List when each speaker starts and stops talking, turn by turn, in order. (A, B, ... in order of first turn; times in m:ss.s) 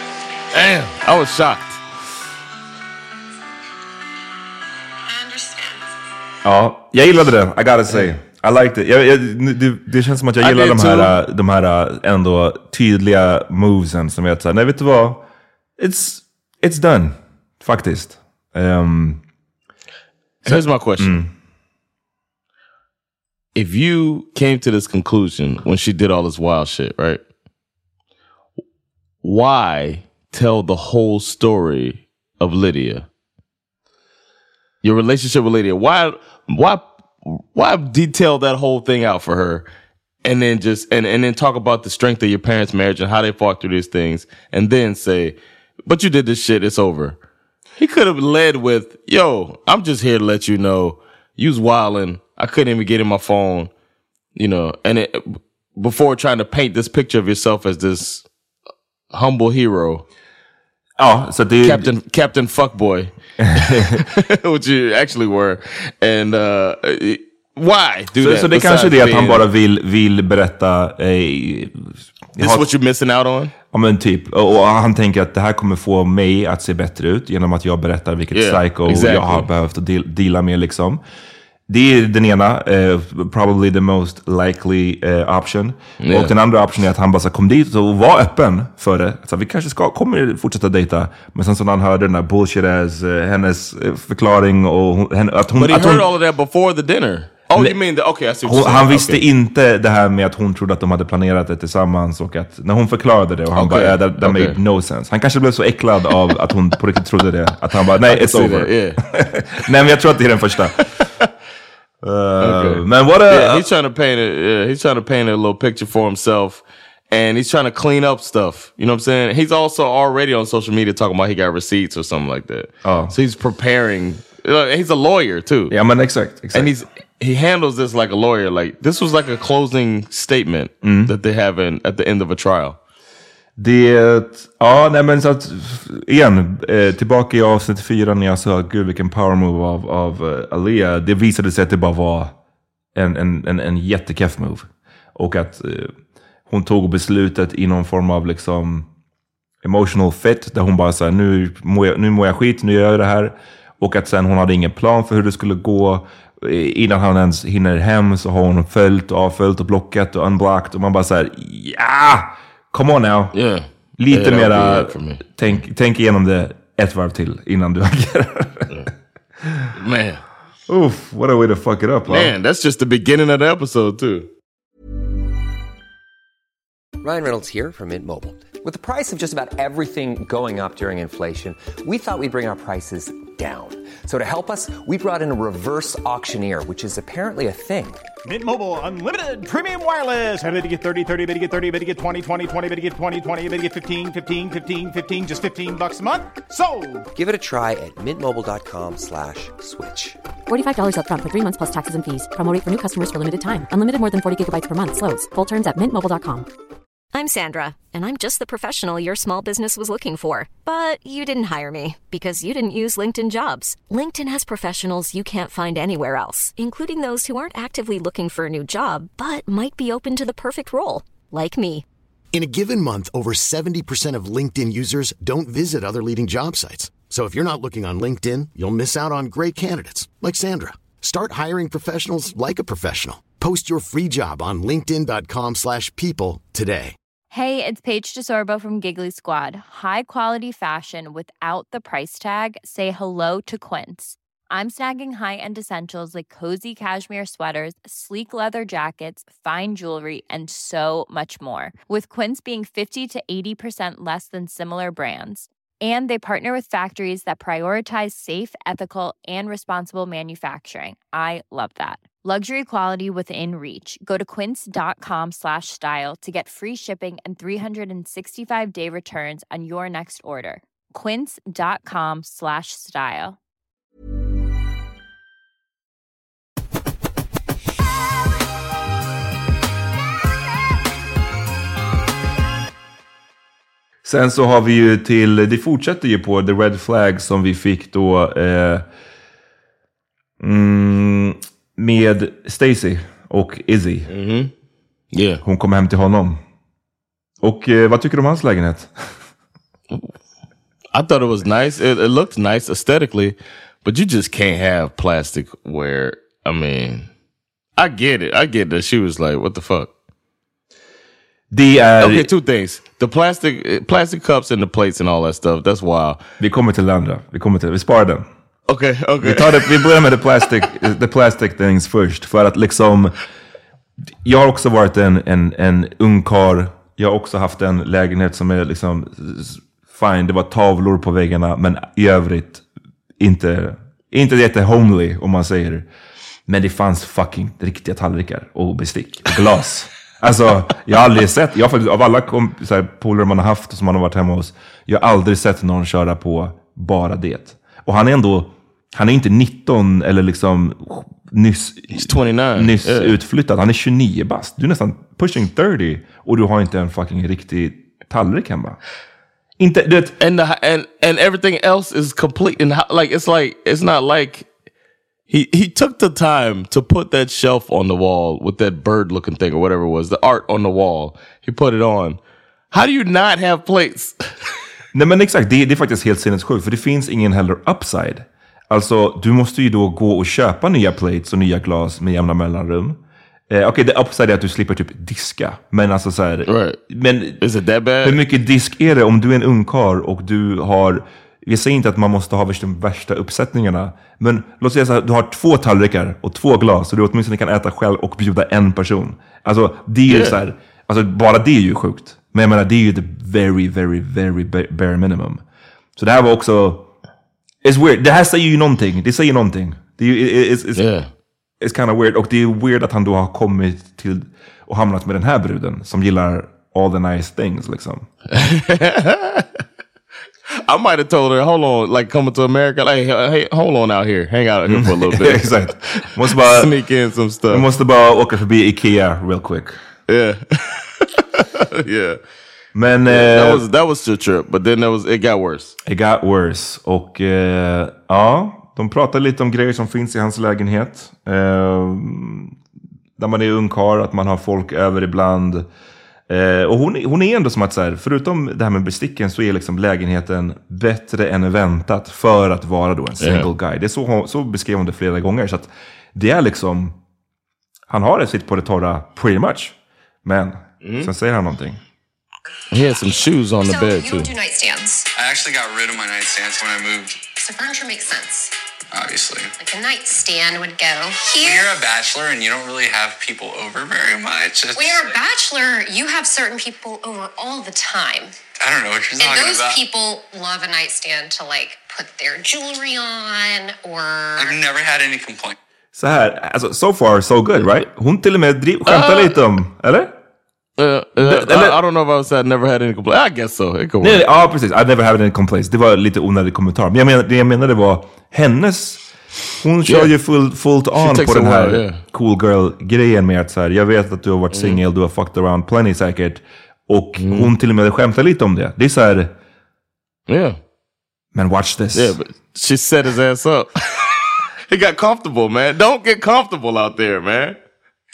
0:00.5-0:01.8 A
0:05.0-0:05.9 B
0:06.4-0:15.2 C
0:10.4-0:11.2 A
0:15.8-0:19.2 C
0:20.4-0:21.2 A
0:20.4-0:21.3 C
0:23.5-0:27.2 A
0:29.2-0:33.1 A
0:34.8-0:39.7 A
0:40.2-0:47.2 A
0:47.8-0:53.7 A
0:54.4-0:58.2 A
0:59.1-1:00.0 A
1:01.0-1:01.9 C
1:01.6-1:09.4 A
1:03.4-1:03.9 C
1:08.2-1:12.6 C
1:12.4-1:13.5 A
1:13.7-1:21.0 C
1:18.3-1:19.5 A
1:21.7-1:36.1 C
1:26.0-1:26.3 A
1:35.6-1:39.2 A
1:38.4-1:50.8 C
1:43.5-1:44.6 A
1:48.0-1:49.0 A
1:52.0-1:53.6 C
1:52.4-2:05.7 A
2:02.8-2:03.1 C
2:05.7-2:06.7 C
2:06.5-2:12.8 A
2:10.8-2:11.1 C
2:13.6-2:22.3 C
2:22.9-2:26.0 C
2:26.5-2:28.9 C
2:29.6-2:43.3 C
2:43.3-2:45.6 A
2:44.0-2:48.7 C
2:49.4-2:49.7 C
2:49.7-2:50.2 A
2:50.7-2:52.3 C
2:52.1-2:54.3 A
2:57.0-3:08.0 D
3:08.2-3:17.1 E
3:17.1-3:20.2 D
3:20.5-3:26.5 F
3:27.1-3:41.8 G
3:42.3-3:56.9 H
3:57.3-4:33.4 I
4:44.0-4:48.9 C
4:50.4-4:54.1 C
4:54.1-4:54.5 A
4:55.1-4:55.4 A
4:55.4-4:56.4 C
4:57.4-4:59.2 C
5:00.9-5:07.1 A
5:07.8-5:09.9 A
5:11.5-5:12.3 C
5:12.0-5:16.2 A
5:16.4-5:18.2 C
5:18.7-5:20.1 A
5:19.2-5:23.1 C
5:24.2-5:32.6 C
5:33.2-5:35.9 C
5:36.5-5:58.8 C
5:51.9-5:53.2 A
5:59.6-6:00.2 C
6:00.2-6:04.5 A
6:05.3-6:12.2 A
6:12.7-6:14.3 A
6:14.9-6:27.4 C
6:26.5-6:26.8 A
6:27.4-6:28.2 A
6:28.0-6:45.4 C
6:40.1-6:40.4 A
6:46.0-6:46.9 C
6:47.6-6:50.9 C
6:50.7-6:51.1 A
6:51.6-6:58.1 C
6:58.3-6:59.5 A
7:00.7-7:07.6 A
7:04.7-7:06.7 C
7:07.5-7:09.8 C
7:10.1-7:12.2 A
7:12.7-7:13.6 C
7:13.1-7:15.7 A
7:15.8-7:22.6 C
7:23.2-7:25.7 C
7:26.3-7:37.0 C
7:33.2-7:33.5 A
7:37.9-7:41.8 C
7:40.8-7:41.1 A
7:42.7-7:44.3 A
7:43.6-7:45.0 B
7:45.2-7:47.2 J
7:47.4-7:48.5 B
7:48.9-7:49.5 J
7:49.6-7:51.7 B
7:51.4-7:55.2 J
7:54.8-7:58.3 B
7:58.6-7:59.9 J
7:59.2-8:04.6 B
8:04.3-8:05.6 J
8:05.9-8:10.2 C
8:08.9-8:09.4 A
8:10.8-8:14.2 A
8:11.2-8:11.8 C
8:14.0-8:19.0 C
8:19.6-8:29.3 C
8:19.8-8:20.1 A
8:20.9-8:22.0 A
8:24.5-8:24.8 A
8:27.2-8:27.5 A
8:30.3-8:30.6 A
8:31.3-8:32.2 C
8:31.9-8:34.0 A
8:34.7-8:37.6 A